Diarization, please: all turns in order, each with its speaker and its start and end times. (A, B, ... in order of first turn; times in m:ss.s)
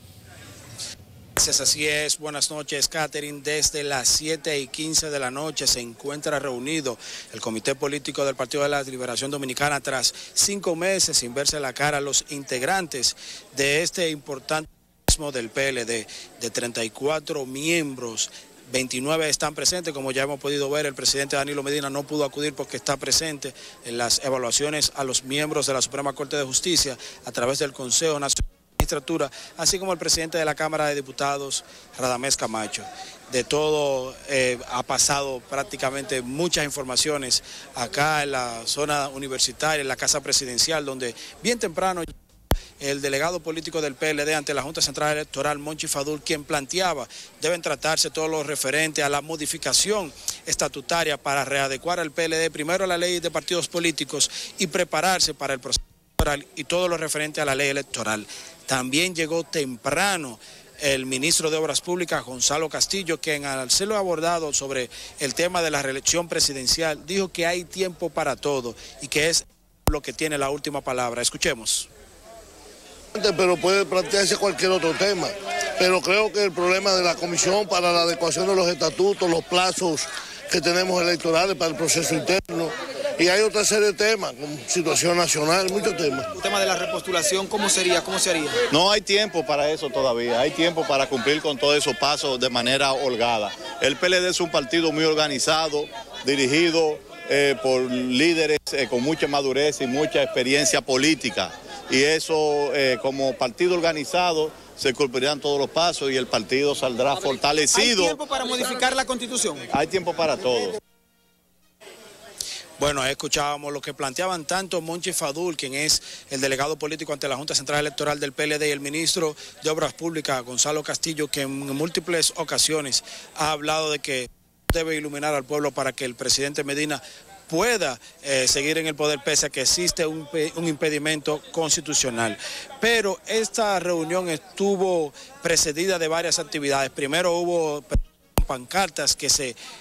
0:01.4-0:42.1 A
0:42.8-1:11.9 A
1:13.1-1:26.2 B
1:26.3-1:28.6 C
1:28.7-1:48.2 D
1:47.7-1:49.6 C
1:49.7-1:50.8 D
1:52.8-2:19.6 A